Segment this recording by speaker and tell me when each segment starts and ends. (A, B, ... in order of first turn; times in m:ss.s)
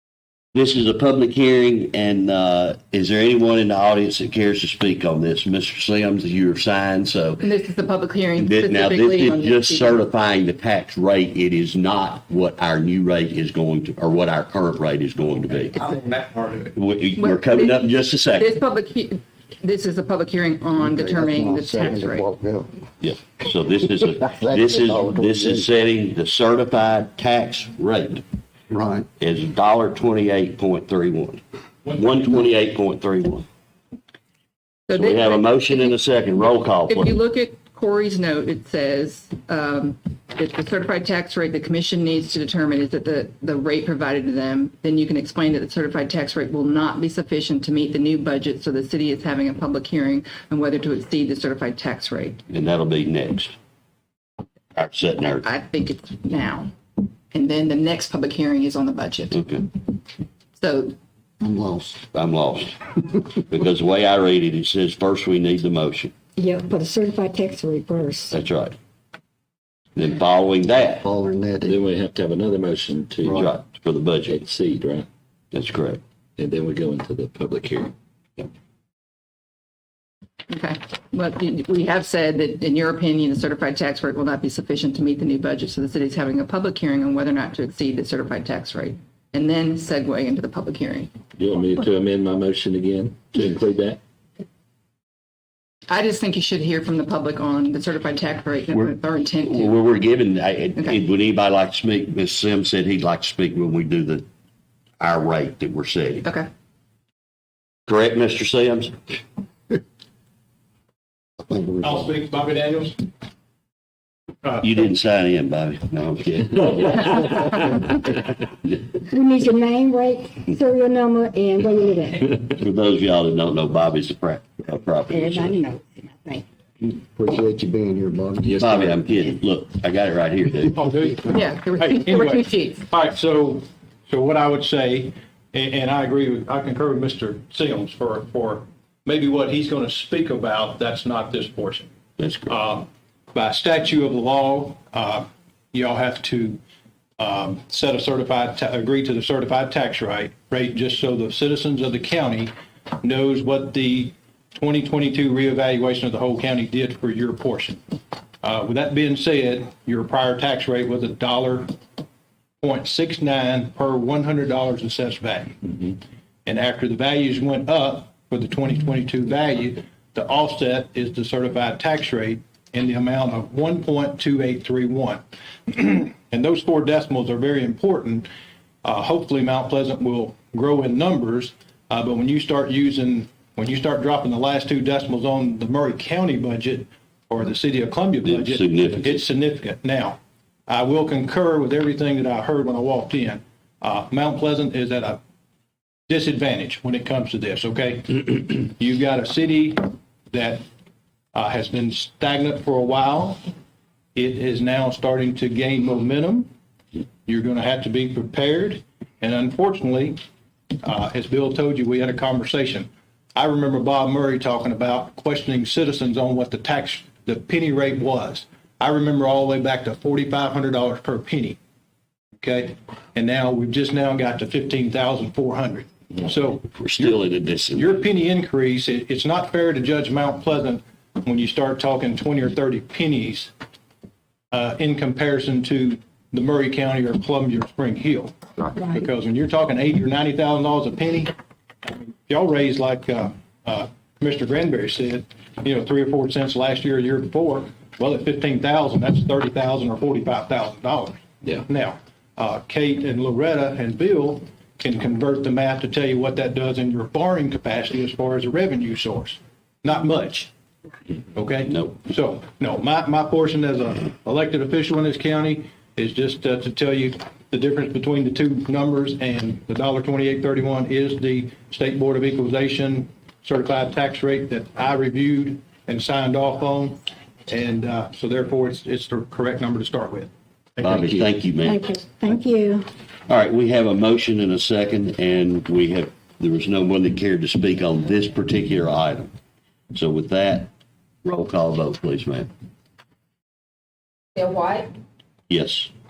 0:00.5-0:07.4 A
0:07.4-0:10.0 B
0:08.4-0:15.9 A
0:16.7-0:18.5 A
0:17.2-0:17.8 B
0:18.4-0:22.2 B
0:20.8-0:22.7 C
0:23.0-0:28.2 A
0:24.2-0:25.7 C
0:28.7-0:29.1 C
0:29.2-0:33.4 A
0:31.8-0:32.3 D
0:34.9-0:35.9 B
0:34.9-0:37.2 A
0:36.9-0:52.4 B
0:52.5-0:53.5 A
0:54.8-0:55.4 A
0:55.4-0:56.7 B
0:57.3-0:59.4 B
0:59.3-0:59.6 A
1:00.6-1:01.0 B
1:01.4-1:02.0 C
1:02.1-1:02.8 A
1:03.5-1:06.1 A
1:06.4-1:08.3 E
1:08.3-1:08.8 A
1:10.0-1:11.0 A
1:11.0-1:11.8 C
1:11.6-1:13.5 F
1:13.2-1:13.5 C
1:13.3-1:14.4 A
1:14.3-1:15.0 F
1:15.5-1:16.0 A
1:16.4-1:17.9 F
1:20.5-1:31.1 B
1:31.4-1:34.0 F
1:35.9-1:39.7 B
1:39.4-1:44.2 A
1:45.0-1:46.2 A
1:47.9-1:49.2 A
1:51.4-1:52.1 C
1:51.8-1:53.0 D
1:54.6-1:57.4 A
1:59.0-2:02.3 E
2:02.5-2:05.6 A
2:05.1-2:06.4 E
2:06.8-2:09.0 C
2:08.4-2:08.8 F
2:08.6-2:10.8 A
2:10.7-2:21.9 D
2:11.3-2:12.8 B
2:22.2-2:22.5 A
2:22.5-2:26.6 D
2:27.2-2:32.5 D
2:33.0-2:37.8 D
2:38.4-2:41.7 D
2:42.6-2:45.9 D
2:46.4-2:58.3 D
2:58.8-3:15.2 D
3:08.2-3:09.2 A
3:16.1-3:20.6 D
3:21.3-3:23.4 D
3:24.1-3:26.5 D
3:27.2-3:30.2 D
3:30.8-3:41.6 D
3:42.4-3:47.2 D
3:46.7-3:48.0 A
3:47.8-3:53.5 D
3:54.5-4:01.3 D
4:01.8-4:20.5 D
4:21.3-4:40.3 D
4:21.7-4:22.0 A
4:40.8-4:41.2 D
4:40.8-4:42.4 A
4:41.6-4:42.9 E
4:43.3-4:49.3 A
4:49.9-4:50.7 A
4:51.2-4:52.5 A
4:54.4-4:54.9 B
4:55.5-4:55.9 A